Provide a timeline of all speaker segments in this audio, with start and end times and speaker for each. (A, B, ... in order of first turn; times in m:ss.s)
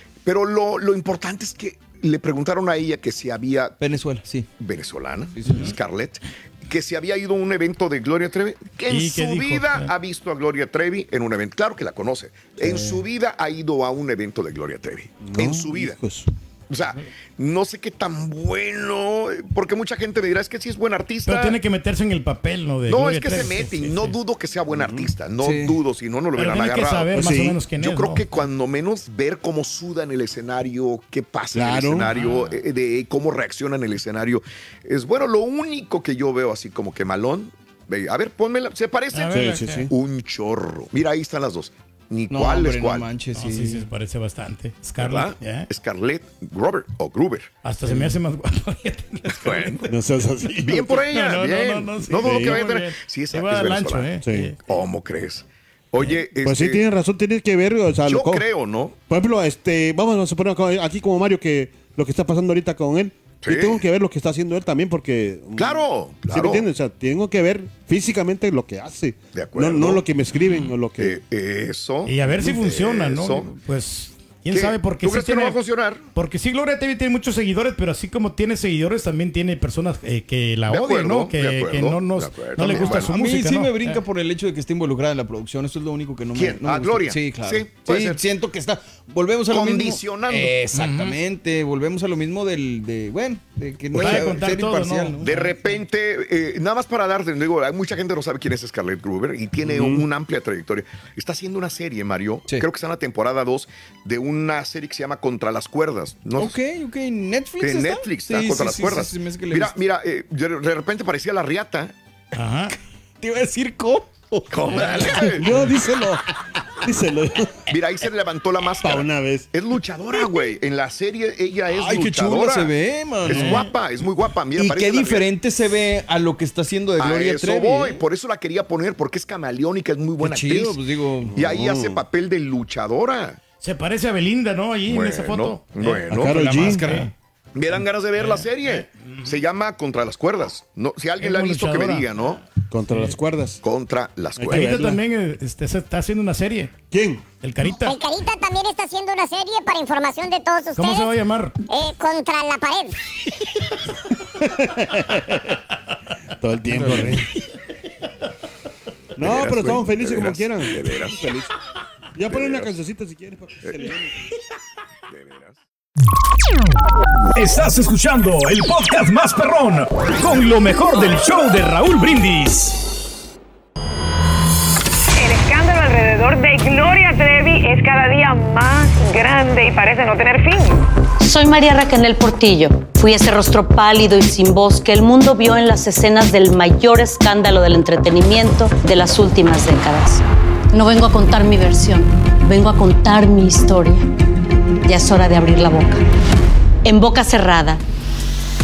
0:00.2-0:03.8 A
0:03.8-0:04.5 B
0:04.6-0:16.0 A
0:05.3-0:05.7 B
0:08.9-0:09.9 C
0:12.6-0:13.1 B
0:15.2-0:16.3 D
0:16.7-0:21.6 A
0:21.2-0:24.2 C
0:22.9-0:27.2 A
0:24.7-0:25.1 D
0:25.4-0:25.8 B
0:26.4-0:28.2 C
0:27.1-0:27.6 D
0:27.7-0:43.1 A
0:31.5-0:32.1 D
0:32.1-0:32.6 C
0:39.1-0:39.9 C
0:39.3-0:39.9 D
0:42.3-0:43.8 B
0:43.3-0:45.7 C
0:45.0-0:47.5 A
0:47.6-0:49.9 C
0:47.9-0:48.1 D
0:49.3-0:49.9 A
0:49.9-0:51.0 D
0:50.6-0:54.1 A
0:51.0-0:54.6 C
0:52.2-0:52.7 D
0:54.2-0:54.5 D
0:54.6-0:56.8 A
0:56.0-0:58.5 D
0:58.1-0:59.0 A
0:59.1-1:11.2 D
1:03.4-1:03.8 A
1:05.6-1:06.7 A
1:09.3-1:10.0 A
1:11.0-1:13.5 A
1:12.0-1:15.6 C
1:14.5-1:16.0 A
1:16.1-1:24.0 C
1:20.7-1:23.2 A
1:22.8-1:35.7 B
1:26.3-1:28.2 A
1:29.5-1:30.6 A
1:30.7-1:31.2 C
1:33.9-1:35.3 C
1:34.0-1:34.4 A
1:35.2-1:46.6 A
1:39.6-1:40.1 D
1:46.4-1:49.8 B
1:47.6-1:51.9 A
1:52.3-1:52.8 C
1:53.2-1:55.4 B
1:54.5-1:55.6 A
1:54.7-1:55.0 C
1:55.2-1:56.2 D
1:56.8-1:57.6 D
1:57.7-2:05.3 A
1:58.8-1:59.5 D
2:01.7-2:03.5 B
2:03.2-2:03.7 C
2:04.5-2:08.1 B
2:07.0-2:13.4 A
2:10.2-2:11.4 B
2:11.3-2:12.0 D
2:13.6-2:17.1 C
2:14.9-2:16.7 A
2:15.8-2:17.0 D
2:16.4-2:17.1 B
2:17.5-2:22.4 A
2:18.2-2:19.4 C
2:21.2-2:22.1 C
2:22.7-2:23.6 D
2:22.9-2:23.2 C
2:23.6-2:24.8 A
2:24.4-2:25.0 D
2:24.5-2:26.7 C
2:26.9-2:27.2 D
2:27.4-2:28.0 C
2:27.6-2:31.2 E
2:30.8-2:31.5 C
2:31.7-2:33.0 E
2:34.4-2:35.5 D
2:36.4-2:37.2 D
2:39.2-2:41.5 D
2:39.2-2:41.2 A
2:42.2-2:44.2 D
2:42.3-2:42.7 A
2:43.6-2:44.0 A
2:45.1-2:45.6 A
2:47.4-2:52.8 F
2:48.0-2:49.0 C
2:55.2-3:00.9 G
3:01.2-3:14.0 H
3:14.8-3:16.0 H
3:16.8-3:17.8 H